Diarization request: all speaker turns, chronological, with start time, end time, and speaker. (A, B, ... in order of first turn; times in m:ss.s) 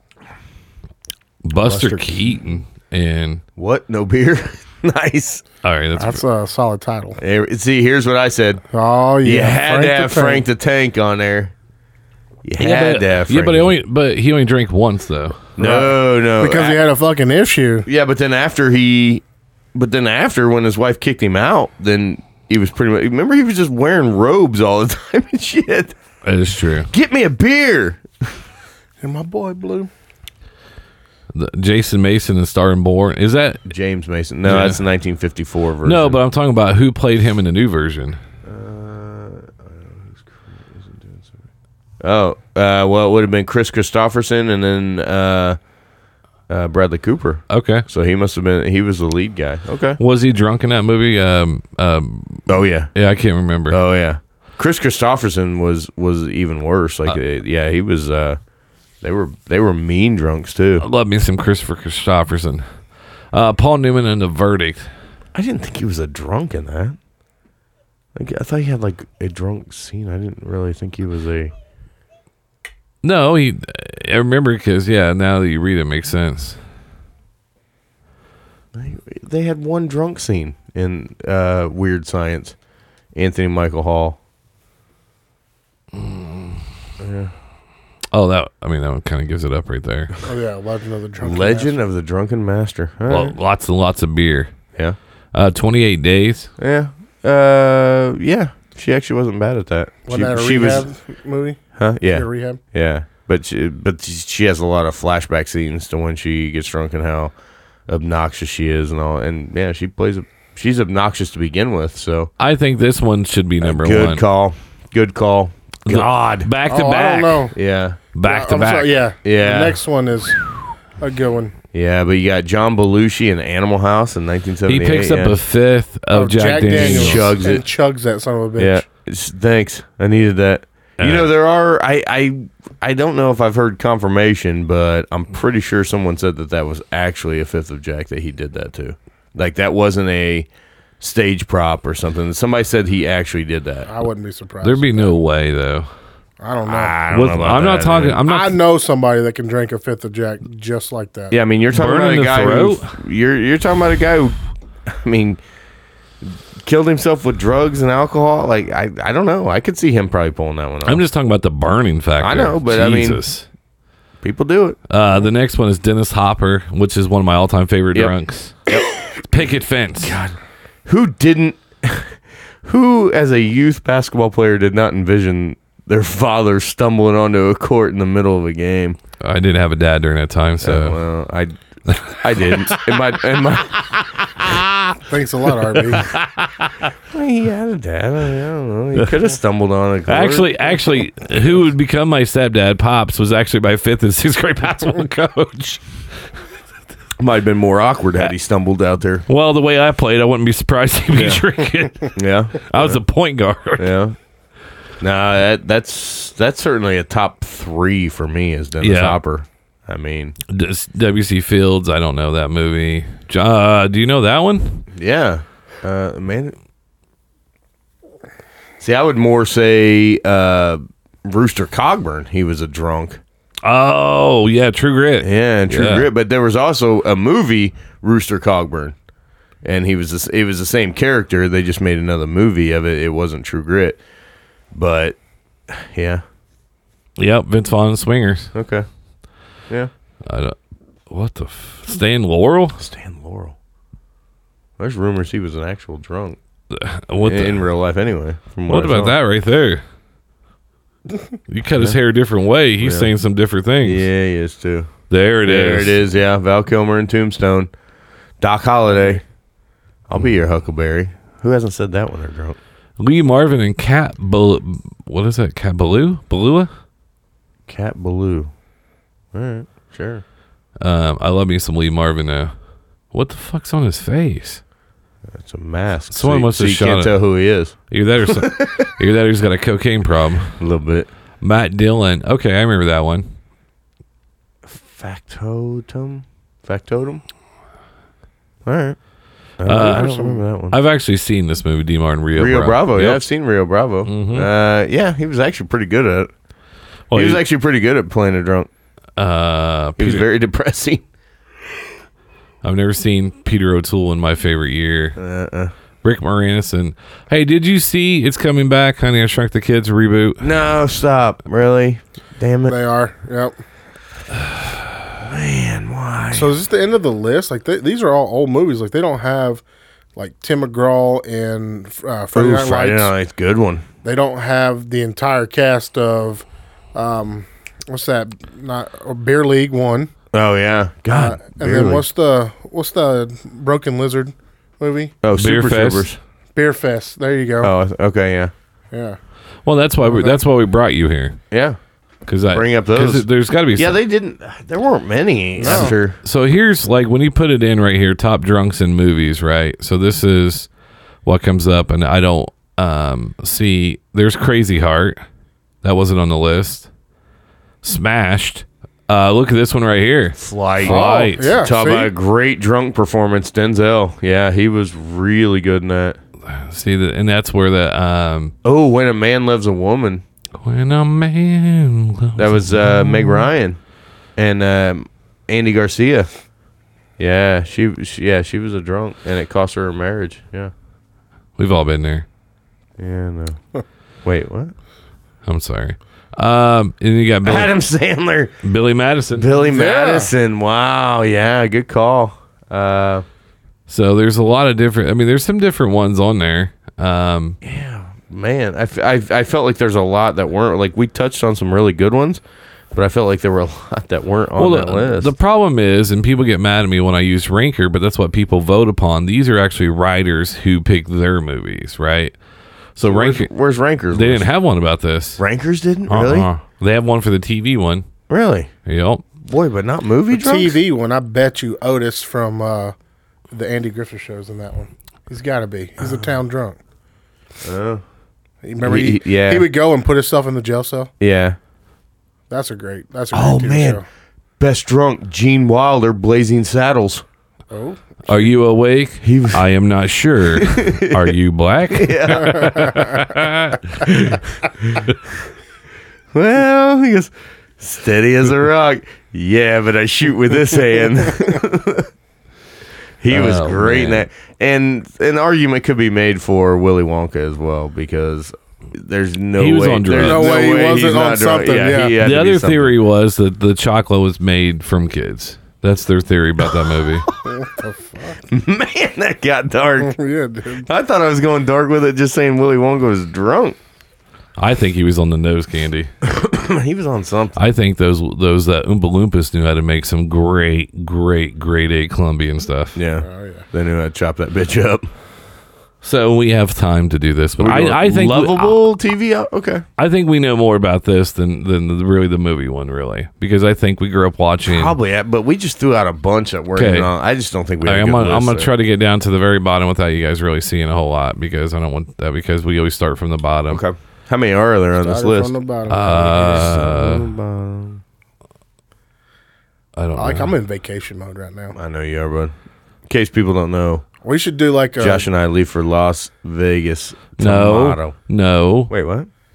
0:01.4-0:03.4 A
0:01.6-0:02.2 B
0:03.6-0:05.4 B
0:05.6-0:06.2 A
0:06.0-0:07.2 C
0:07.2-0:08.6 B
0:08.7-0:10.4 C
0:09.2-0:11.5 B
0:12.4-0:13.7 B
0:12.6-0:15.5 A
0:15.6-0:16.8 B
0:15.6-0:17.9 C
0:17.9-0:26.0 B
0:26.2-0:26.9 A
0:26.9-0:28.4 B
0:29.0-0:29.9 C
0:31.3-0:33.7 A
0:33.7-0:36.2 B
0:34.4-0:34.8 A
0:35.8-0:38.2 A
0:38.4-0:41.4 B
0:42.0-0:45.6 B
0:46.5-0:50.0 B
0:47.5-0:47.8 A
0:50.0-0:53.8 A
0:52.5-0:52.9 B
0:53.7-0:58.4 B
0:59.0-1:00.8 B
1:00.8-1:02.6 A
1:03.3-1:04.9 A
1:05.3-1:07.0 B
1:08.2-1:11.5 B
1:13.0-1:16.6 A
1:18.7-1:22.6 B
1:23.1-1:24.2 B
1:25.9-1:26.6 A
1:27.0-1:27.3 B
1:28.1-1:30.2 A
1:30.3-1:31.8 C
1:31.2-1:33.4 B
1:33.1-1:34.5 A
1:35.3-1:36.5 A
1:36.6-1:40.9 B
1:40.1-1:42.6 C
1:41.8-1:47.3 B
1:47.9-1:52.3 B
1:52.4-1:54.2 A
1:53.6-1:56.5 B
1:55.9-1:57.5 A
1:56.7-1:57.5 C
1:57.6-1:58.0 B
1:58.1-1:59.0 A
1:58.2-2:00.4 C
1:59.2-1:59.8 B
2:01.0-2:01.5 C
2:01.7-2:05.4 B
2:04.7-2:07.4 A
2:06.1-2:08.8 C
2:06.7-2:07.7 B
2:08.6-2:20.5 B
2:11.0-2:11.3 A
2:21.0-2:23.9 B
2:23.9-2:25.1 C
2:24.6-2:25.9 A
2:26.4-2:27.0 C
2:26.7-2:28.2 B
2:27.1-2:28.6 A
2:28.3-2:31.4 C
2:31.3-2:35.4 B
2:31.7-2:33.0 A
2:36.2-2:41.0 B
2:40.8-2:43.4 A
2:42.2-2:43.2 B
2:44.2-2:44.8 B
2:44.9-2:48.7 A
2:48.7-2:49.5 B
2:49.2-2:50.2 A
2:50.0-2:59.0 B
2:59.2-3:01.0 A
3:00.6-3:01.6 B
3:01.9-3:03.0 A
3:02.1-3:04.0 B
3:03.8-3:05.0 A
3:05.1-3:06.1 C
3:06.0-3:06.9 A
3:07.1-3:10.7 B
3:10.1-3:15.8 A
3:17.2-3:19.3 B
3:19.3-3:23.9 A
3:21.1-3:21.4 B
3:22.1-3:23.0 B
3:23.8-3:24.2 B
3:25.0-3:30.4 B
3:28.8-3:29.2 A
3:30.5-3:34.9 A
3:34.9-3:36.6 B
3:38.8-3:43.2 B
3:43.6-3:46.1 A
3:45.2-3:49.0 B
3:49.6-3:54.0 B
3:54.7-3:56.2 B
3:57.2-3:58.5 A
3:58.5-3:58.9 B
4:00.3-4:00.6 A
4:01.1-4:02.8 A
4:02.8-4:03.6 B
4:04.8-4:06.4 B
4:06.7-4:07.6 A
4:07.2-4:09.2 B
4:08.7-4:09.8 A
4:11.5-4:14.1 A
4:12.8-4:13.1 B
4:13.8-4:14.9 B
4:15.1-4:16.0 A
4:15.4-4:17.7 B
4:18.4-4:19.2 B
4:20.1-4:22.6 B
4:23.0-4:26.7 A
4:27.7-4:28.5 B
4:29.3-4:30.2 B
4:30.8-4:32.5 A
4:33.1-4:34.6 A
4:35.3-4:38.9 B
4:36.1-4:37.2 A
4:37.9-4:40.6 A
4:40.6-4:41.1 B
4:41.4-4:43.3 A
4:44.6-4:47.2 B
4:48.6-4:49.0 B
4:49.6-4:50.8 B
4:49.6-4:50.1 A
4:49.8-4:50.4 C
4:50.7-4:53.2 A
4:52.4-4:56.3 B
4:54.1-4:54.5 A
4:57.1-4:57.4 A
4:57.1-4:58.7 B
4:59.2-5:00.3 A
5:00.0-5:01.0 B
5:02.6-5:05.2 A
5:05.2-5:05.7 B
5:06.0-5:10.5 A
5:10.4-5:12.8 B
5:12.7-5:13.6 C
5:15.2-5:16.5 B
5:16.3-5:19.6 C
5:20.2-5:23.1 C
5:22.3-5:23.8 B
5:24.0-5:30.1 C
5:30.3-5:32.1 B
5:31.1-5:35.1 C
5:35.2-5:36.2 B
5:35.4-5:36.1 A
5:36.6-5:37.7 C
5:37.6-5:38.5 B
5:38.9-5:39.2 C
5:39.6-5:41.4 A
5:40.0-5:40.4 C
5:41.5-5:41.8 B
5:42.3-5:44.0 A
5:42.5-5:46.2 B
5:45.6-5:46.0 C
5:45.7-5:50.7 A
5:51.2-5:55.2 A
5:55.8-5:56.9 A
5:57.8-6:01.6 A
6:00.4-6:06.2 B
6:00.8-6:02.1 C
6:06.4-6:08.5 A
6:08.6-6:10.2 B
6:10.6-6:13.5 A
6:12.4-6:13.8 B
6:14.4-6:16.3 B
6:17.2-6:20.7 B
6:21.6-6:22.2 A
6:23.0-6:23.6 B
6:24.2-6:24.7 B
6:25.4-6:27.7 A
6:27.4-6:28.5 B
6:28.6-6:29.5 A
6:29.3-6:33.2 B
6:29.6-6:30.3 C
6:33.9-6:37.6 A
6:37.6-6:42.4 B
6:42.9-6:45.3 B
6:44.6-6:52.4 A
6:53.0-6:53.5 A
6:53.0-6:54.5 B
6:54.1-6:55.4 A
6:55.4-6:56.5 B
6:56.1-6:58.1 A
6:58.3-6:58.7 B
6:58.9-6:59.3 A
6:59.4-7:00.8 B
7:00.3-7:02.9 C
7:03.5-7:06.8 C
7:06.0-7:06.3 B
7:07.6-7:08.0 B
7:08.6-7:11.1 C
7:08.8-7:09.7 B
7:11.2-7:11.6 B
7:12.5-7:14.0 C
7:13.3-7:14.0 B
7:14.6-7:17.2 B
7:17.7-7:18.2 C
7:18.3-7:24.3 A
7:19.2-7:19.7 B
7:20.5-7:21.4 B
7:21.9-7:22.9 B
7:24.1-7:25.1 B
7:26.3-7:32.1 B
7:33.2-7:43.0 B
7:33.3-7:34.3 A
7:39.6-7:40.5 A
7:40.2-7:42.2 C
7:42.2-7:47.3 A
7:47.5-7:48.4 C
7:48.5-7:50.2 B
7:50.0-7:50.9 C
7:50.8-7:53.8 B
7:54.6-7:56.1 A
7:56.2-7:57.6 B
7:57.6-8:03.0 A
8:03.0-8:05.1 B
8:03.2-8:03.7 C
8:06.0-8:08.8 A
8:07.6-8:09.8 B
8:10.0-8:15.0 A
8:14.6-8:18.7 B
8:16.8-8:17.1 A
8:17.8-8:23.8 A
8:23.7-8:28.0 B
8:25.0-8:26.7 C
8:25.9-8:27.3 A
8:30.0-8:30.5 A
8:30.2-8:31.8 C
8:31.7-8:32.5 B
8:33.1-8:34.0 B
8:34.2-8:35.3 C
8:35.0-8:38.2 B
8:37.4-8:38.9 A
8:38.9-8:39.3 B